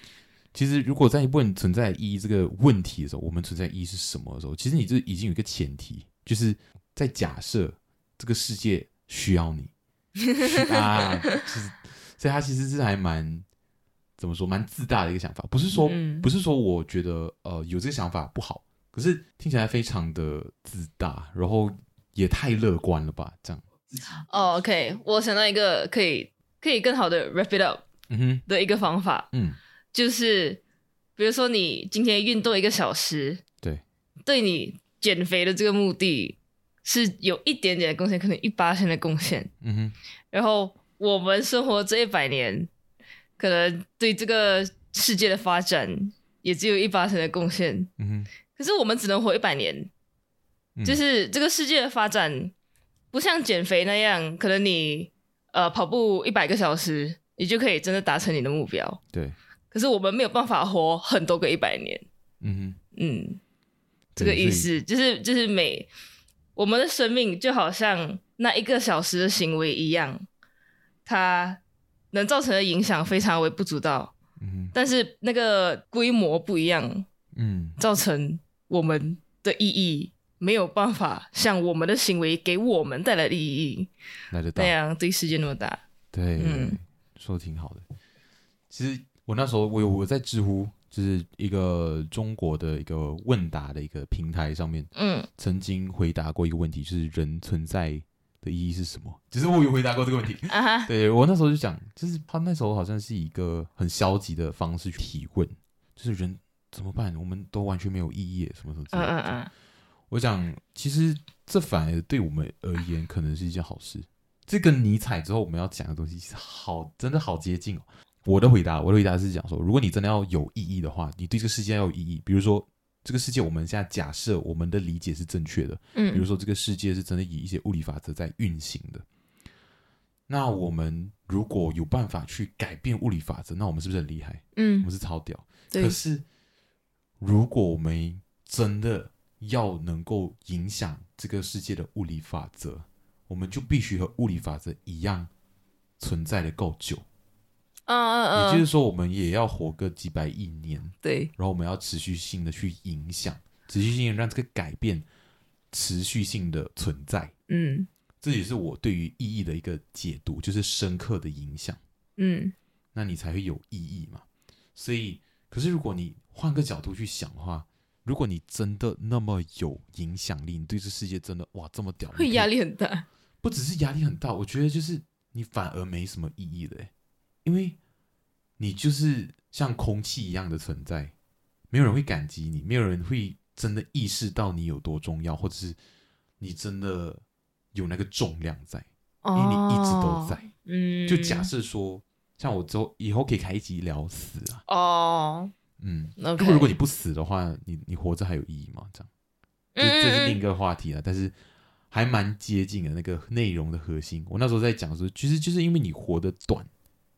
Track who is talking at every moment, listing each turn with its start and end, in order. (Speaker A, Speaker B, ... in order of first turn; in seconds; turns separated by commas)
Speaker A: 0.5-9.7, Speaker B: 10.3-11.0, Speaker A: 10.4-13.4, Speaker A: 14.2-23.7, Speaker B: 15.7-16.3, Speaker B: 24.2-27.8, Speaker A: 28.1-28.4, Speaker B: 28.5-29.3, Speaker A: 29.3-29.6, Speaker B: 29.9-30.6, Speaker B: 31.2-33.4, Speaker B: 34.2-39.5, Speaker A: 39.6-40.0, Speaker B: 40.3-42.7, Speaker B: 43.4-47.9, Speaker A: 48.0-48.3, Speaker B: 48.5-49.9, Speaker A: 50.8-51.0, Speaker B: 50.8-52.5, Speaker B: 53.1-59.0, Speaker B: 59.7-62.0, Speaker A: 62.4-62.8, Speaker B: 62.9-63.4, Speaker A: 64.2-64.7, Speaker B: 64.2-65.9, Speaker B: 66.5-70.3, Speaker B: 71.0-71.6, Speaker B: 72.1-74.1, Speaker A: 74.4-74.7, Speaker B: 74.7-77.1, Speaker A: 77.3-77.8, Speaker B: 77.8-83.9, Speaker A: 84.3-84.7, Speaker B: 84.5-85.8, Speaker A: 86.1-87.8, Speaker B: 86.4-86.8, Speaker A: 88.7-109.4, Speaker B: 94.9-95.3, Speaker B: 100.5-100.9, Speaker B: 108.9-109.5, Speaker A: 110.1-129.0, Speaker B: 125.9-126.2, Speaker A: 130.3-136.2, Speaker B: 134.5-134.9, Speaker B: 135.7-136.0, Speaker A: 137.2-145.3, Speaker A: 146.0-147.0, Speaker B: 147.9-148.7, Speaker A: 148.3-155.1, Speaker B: 151.0-151.3, Speaker A: 155.7-157.3, Speaker B: 157.5-157.9, Speaker A: 158.2-161.8, Speaker B: 162.2-162.5, Speaker A: 162.9-172.5, Speaker B: 172.1-173.1, Speaker A: 173.4-176.9, Speaker A: 177.4-177.8, Speaker A: 178.6-181.1, Speaker A: 181.7-185.8, Speaker A: 186.4-187.2, Speaker A: 187.7-190.5, Speaker B: 189.2-191.5, Speaker A: 191.1-194.6, Speaker B: 194.7-195.5, Speaker A: 195.8-199.1, Speaker B: 196.2-196.7, Speaker B: 199.8-200.4, Speaker A: 199.8-201.3, Speaker A: 201.9-206.7